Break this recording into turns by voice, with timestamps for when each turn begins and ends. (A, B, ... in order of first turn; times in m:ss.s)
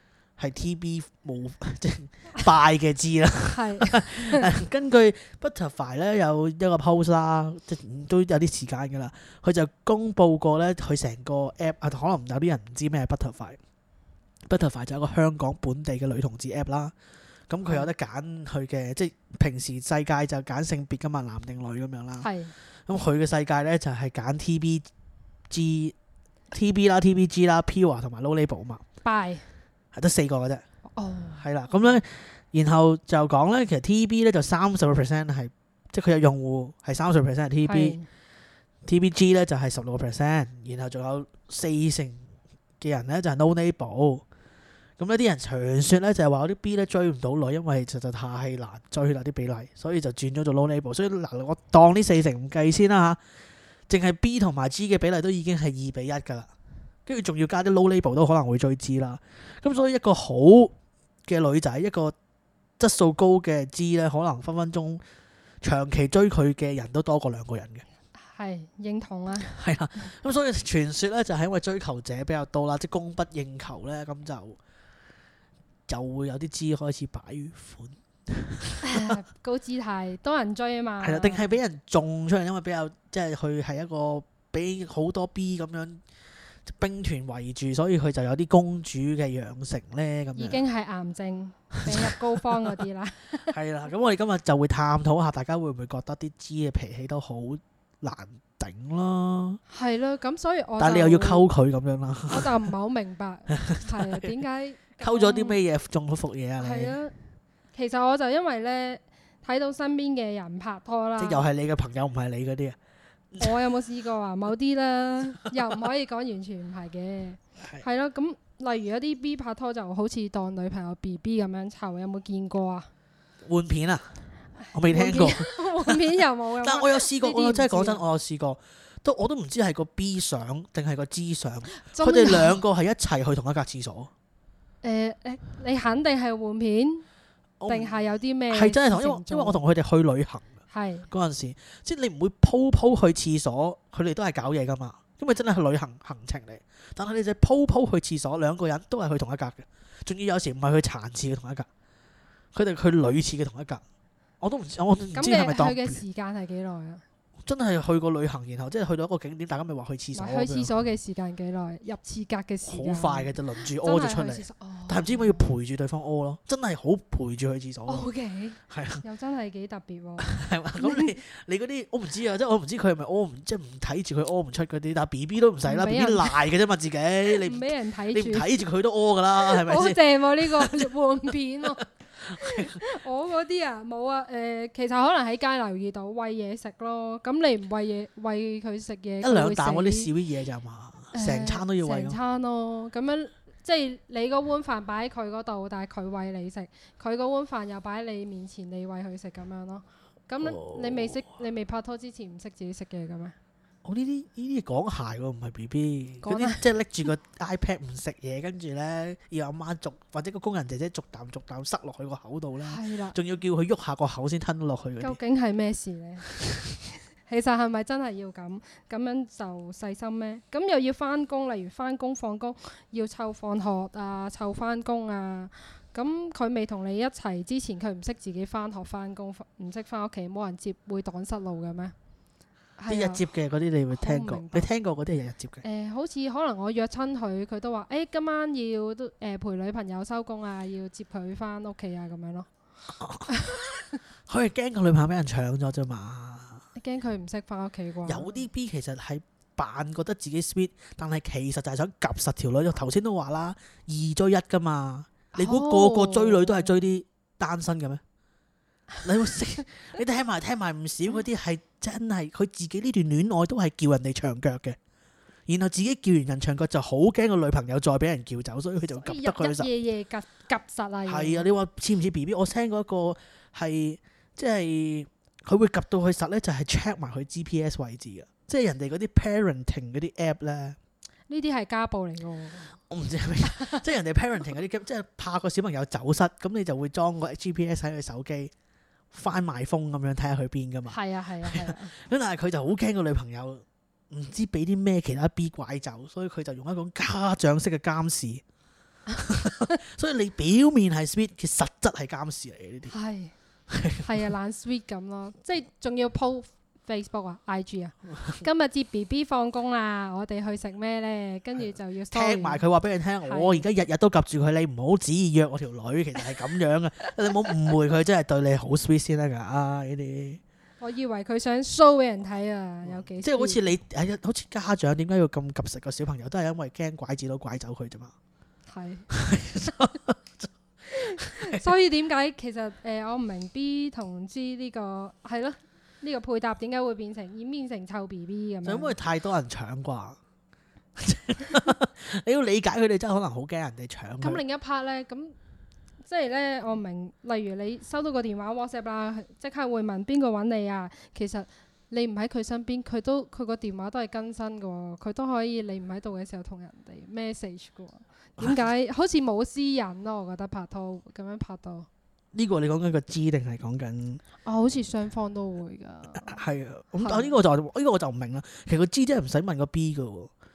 0:00.4-0:13.6 A
0:03.5-0:04.5 B
0:14.5-0:16.9 A
0:17.5-0:22.3 A
0:22.2-0:22.5 B
0:22.9-0:24.9 A
0:25.5-0:26.0 A
0:26.5-0:28.8 A
0:29.0-0:29.4 B
0:30.0-0:30.6 A
0:31.0-0:31.5 B
0:31.4-0:38.0 A
0:37.6-0:38.0 B
0:38.8-0:42.3 A
0:42.8-0:44.2 A
0:45.0-0:53.2 A
0:53.9-0:56.5 A
0:57.1-1:00.7 A
1:01.3-1:02.2 A
1:02.8-1:05.0 A
1:05.6-1:07.8 A
1:08.2-1:09.6 B
1:09.4-1:14.6 A
1:15.9-1:19.2 A
1:18.8-1:21.5 B
1:21.0-1:26.0 A
1:26.7-1:30.6 A
1:30.4-1:33.6 B
1:31.8-1:32.2 A
1:33.5-1:39.6 A
1:39.7-1:41.5 B
1:40.8-1:42.6 A
1:42.3-1:45.6 B
1:43.5-1:44.3 A
1:45.0-1:47.0 A
1:46.6-1:47.1 B
1:47.7-1:51.4 B
1:51.2-1:52.8 A
1:53.4-2:02.9 B
2:03.4-2:04.1 A
2:04.6-2:08.0 B
2:04.7-2:14.1 A
2:11.7-2:12.6 B
2:14.8-2:17.0 B
2:17.6-2:17.9 A
2:17.7-2:19.6 B
2:18.5-2:20.5 A
2:20.7-2:21.1 B
2:21.1-2:31.7 A
2:32.5-2:33.8 A
2:34.4-2:36.0 A
2:35.2-2:37.0 B
2:37.4-2:40.7 A
2:40.1-2:45.5 B
2:42.7-2:48.1 A
2:47.9-2:51.2 B
2:48.7-2:49.0 A
2:50.2-3:00.9 A
2:55.6-2:56.4 B
2:57.4-2:58.6 B
2:59.4-3:01.9 B
3:02.3-3:02.8 A
3:02.4-3:10.1 B
3:09.2-3:12.2 A
3:11.1-3:23.4 B
3:20.4-3:21.2 A
3:23.8-3:35.2 A
3:26.2-3:26.6 B
3:32.6-3:33.2 B
3:35.0-3:36.3 B
3:37.3-3:52.0 B
3:52.8-3:53.2 B
3:52.9-3:55.6 A
3:53.9-3:54.7 B
3:55.6-4:02.5 B
4:03.0-4:03.3 A
4:03.3-4:03.9 B
4:04.3-4:06.6 A
4:06.8-4:08.4 B
4:08.1-4:18.0 A
4:15.3-4:16.7 B
4:19.0-4:24.8 A
4:25.5-4:29.7 A
4:29.0-4:31.5 B
4:31.1-4:40.8 A
4:41.3-4:42.8 B
4:42.9-4:48.5 A
4:43.4-4:43.8 B
4:49.1-4:58.4 A
4:50.9-4:51.9 B
4:59.2-5:02.9 A
5:02.9-5:03.3 B
5:03.7-5:04.0 A
5:04.0-5:12.6 B
5:12.1-5:20.4 A
5:13.2-5:13.7 B
5:20.8-5:23.6 B
5:22.8-5:28.1 A
5:28.7-5:29.1 B
5:29.1-5:30.5 A
5:31.0-5:31.6 A
5:31.0-5:39.0 B
5:38.6-5:40.2 A
5:41.0-5:44.4 A
5:44.2-5:45.4 B
5:46.0-6:01.9 B
5:58.4-5:58.6 A
6:02.3-6:04.2 A
6:04.4-6:06.4 B
6:06.2-6:10.3 A
6:07.0-6:07.4 B